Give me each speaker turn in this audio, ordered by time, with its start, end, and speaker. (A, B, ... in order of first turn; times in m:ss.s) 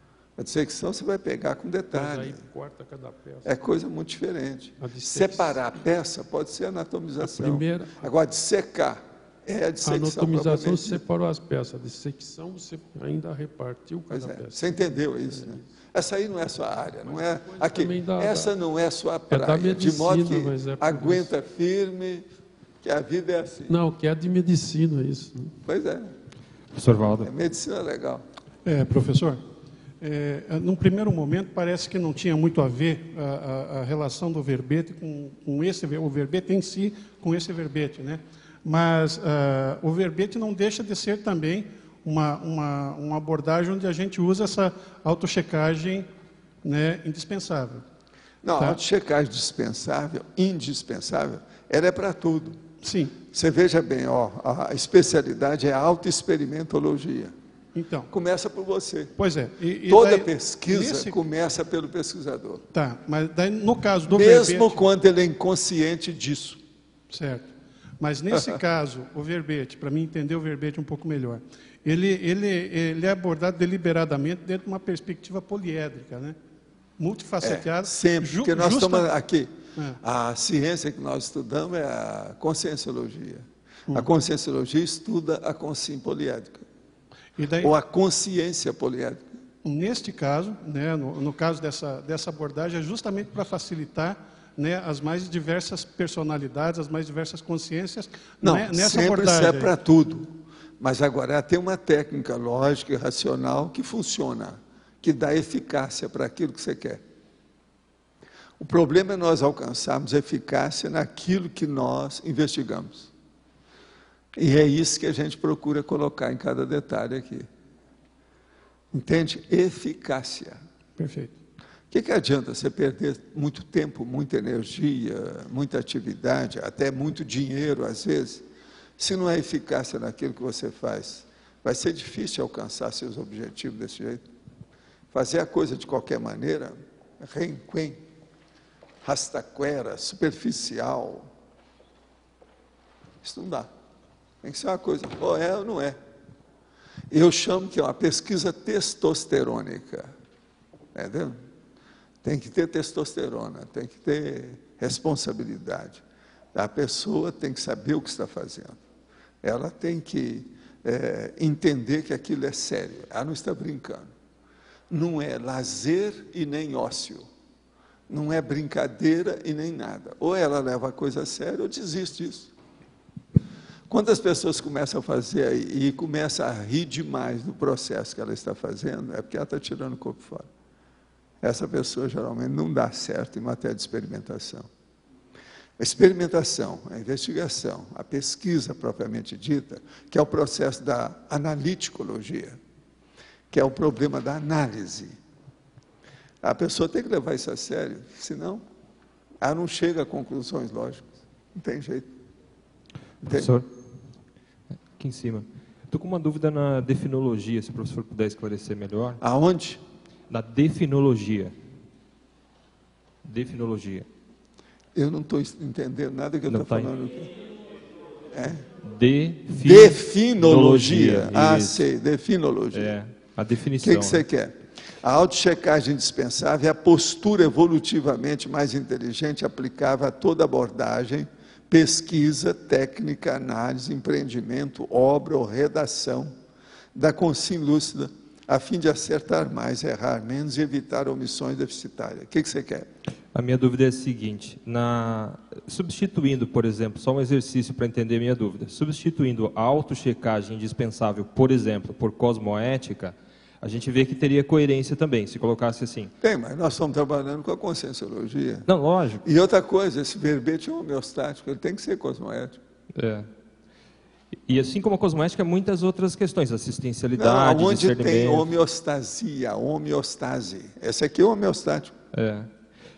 0:00.4-0:02.4 A
0:01.9-0:03.5 B
0:03.4-0:11.0 A
0:04.8-0:05.6 B
0:07.2-0:08.1 B
0:09.8-0:15.7 B
0:14.1-0:22.2 A
0:17.3-0:18.6 B
0:19.3-0:21.3 B
0:22.8-0:23.7 A
0:23.7-0:25.5 B
0:25.6-0:26.1 A
0:26.7-0:27.3 C
0:27.2-0:28.2 A
0:28.6-0:29.4 D
0:30.0-0:46.1 D
0:46.6-0:47.8 D
0:48.4-0:52.6 A
0:52.8-0:53.2 D
0:53.3-0:57.3 A
0:57.7-0:58.1 D
0:58.1-0:59.1 A
0:59.2-1:01.2 D
0:59.8-1:02.6 A
1:02.7-1:04.8 D
1:04.1-1:06.6 A
1:07.1-1:16.4 D
1:08.3-1:08.6 A
1:17.0-1:19.1 D
1:17.4-1:19.5 A
1:20.0-1:26.6 A
1:27.4-1:27.7 D
1:27.6-1:29.2 A
1:29.6-1:39.7 D
1:38.4-1:47.0 A
1:48.6-1:53.1 A
1:54.4-1:57.5 A
1:58.9-2:00.6 A
2:01.0-2:01.3 D
2:01.9-2:08.4 A
2:09.0-2:14.2 A
2:15.1-2:18.0 A
2:19.0-2:21.3 A
2:23.2-2:23.7 A
2:24.4-2:26.0 A
2:27.1-2:30.1 A
2:30.9-2:31.4 A
2:32.2-2:36.0 A
2:36.5-2:38.8 A
2:39.4-2:44.1 A
2:44.9-2:47.2 A
2:48.1-2:52.5 A
2:53.9-3:00.5 A
3:01.4-3:04.7 A
3:05.8-3:12.6 A
3:13.5-3:15.2 A
3:16.4-3:18.6 A
3:19.4-3:22.1 A
3:23.2-3:23.5 A
3:23.3-3:23.6 C
3:24.9-3:29.2 C
3:29.2-3:29.8 A
3:30.3-3:31.6 C
3:33.2-3:34.1 C
3:34.9-3:37.3 A
3:36.5-3:36.9 C
3:38.3-3:38.6 A
3:38.8-3:41.8 C
3:39.6-3:43.0 A
3:42.7-3:44.2 C
3:43.8-3:56.3 A
3:56.9-4:02.9 A
4:03.3-4:16.1 C
4:16.2-4:18.7 A
4:18.7-4:19.2 C
4:19.2-4:22.6 A
4:22.9-4:23.3 C
4:24.5-4:28.5 C
4:27.2-4:31.9 A
4:32.1-4:32.5 C